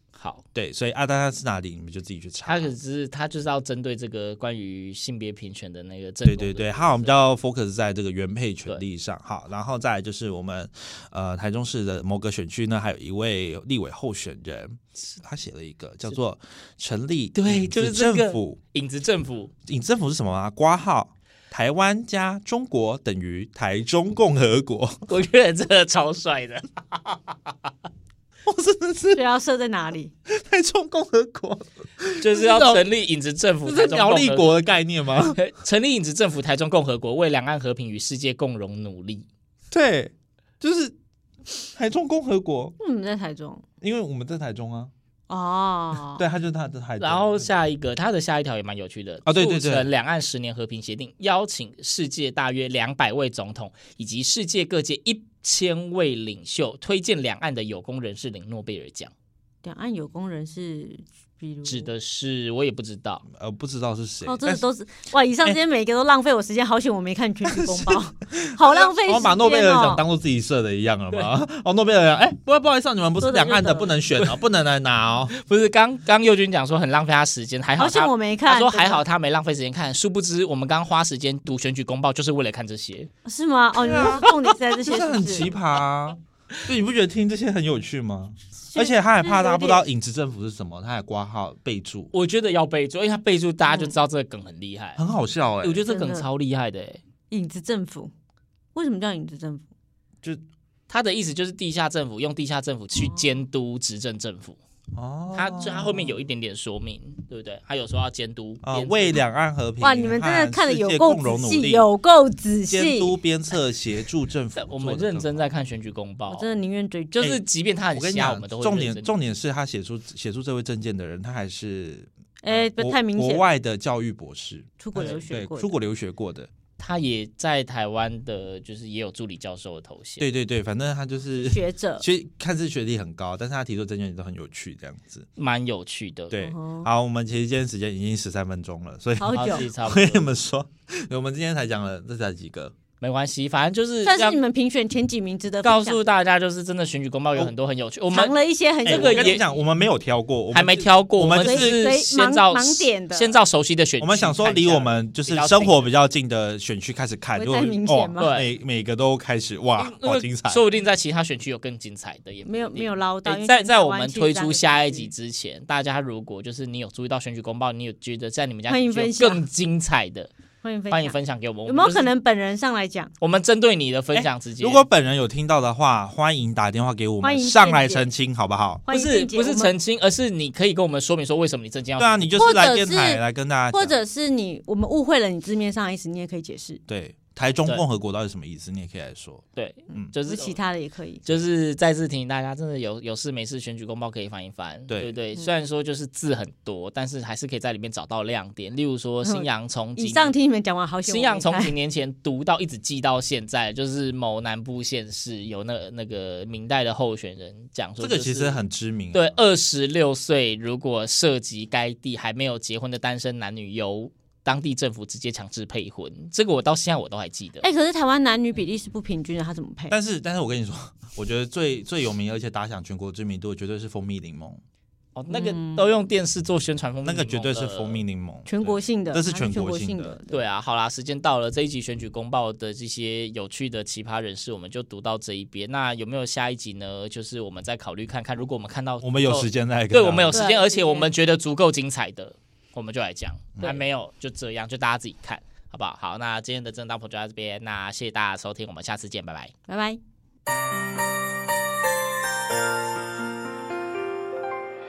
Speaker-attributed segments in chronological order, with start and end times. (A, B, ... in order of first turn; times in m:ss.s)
0:00.2-0:00.4 A
0:00.5-0:02.7 B
0:02.5-0:07.2 A
0:06.2-0:18.6 B
0:17.4-0:19.5 A
0:19.7-0:25.0 B
0:25.1-0:27.6 A
0:28.5-0:29.2 B
0:29.1-0:30.1 C
0:30.3-0:32.8 B
0:32.2-0:34.6 A
0:33.6-0:35.4 B
0:35.3-0:39.3 A
0:39.7-0:40.9 B
0:41.7-0:42.8 B
0:42.8-0:43.6 C
0:43.8-0:44.9 B
0:45.3-0:46.2 C
0:46.1-0:47.6 B
0:47.0-0:59.1 A
0:49.2-0:49.9 B
0:59.6-1:01.9 C
1:01.6-1:03.2 A
1:03.3-1:04.7 B
1:04.2-1:10.0 C
1:07.4-1:15.4 B
1:13.2-1:14.0 C
1:15.3-1:23.1 A
1:17.8-1:19.0 C
1:23.2-1:25.6 C
1:23.8-1:32.1 B
1:28.7-1:29.9 C
1:32.1-1:35.0 A
1:33.7-1:34.0 C
1:35.0-1:35.9 B
1:35.6-1:37.0 A
1:35.9-1:36.3 C
1:37.3-1:38.1 C
1:38.7-1:39.7 C
1:40.9-1:44.6 A
1:43.0-1:43.4 C
1:44.9-1:46.2 B
1:45.3-1:49.2 A
1:48.6-1:51.9 B
1:49.8-1:53.2 C
1:52.7-1:55.4 B
1:54.6-1:56.5 A
1:56.3-1:57.3 C
1:57.2-1:59.1 A
1:57.9-2:06.5 B
2:02.4-2:03.4 C
2:04.8-2:05.7 C
2:06.8-2:10.3 A
2:10.2-2:15.3 B
2:11.4-2:12.1 C
2:15.4-2:16.4 A
2:16.3-2:22.7 B
2:16.4-2:16.9 C
2:19.2-2:19.7 C
2:19.3-2:20.3 A
2:23.0-2:24.4 A
2:24.0-2:26.0 C
2:25.6-2:29.6 A
2:28.1-2:29.4 C
2:28.8-2:31.8 B
2:30.5-2:35.9 A
2:31.4-2:33.4 C
2:34.0-2:40.6 B
2:37.3-2:38.4 C
2:38.2-2:38.5 A
2:39.8-2:50.3 A
2:42.4-2:45.1 C
2:48.7-2:49.4 C
2:50.6-2:53.1 C
2:50.9-2:52.1 A
2:53.2-2:54.9 A
2:54.1-2:58.9 B
2:57.2-2:58.1 C
2:58.9-2:59.7 C
2:58.9-3:02.3 A
3:02.0-3:04.0 B
3:02.3-3:06.8 C
3:06.9-3:10.1 B
3:09.6-3:10.6 A
3:10.0-3:11.2 C
3:11.2-3:20.4 A
3:14.9-3:15.2 B
3:19.2-3:21.8 C
3:21.0-3:37.6 A
3:28.0-3:29.4 B
3:37.6-3:40.0 C
3:39.9-3:44.6 B
3:45.2-3:48.0 A
3:45.3-3:45.9 C
3:47.0-3:50.1 B
3:48.4-3:50.4 C
3:50.3-4:09.5 A
3:59.0-4:00.4 B
4:00.3-4:01.1 C
4:09.7-4:10.0 C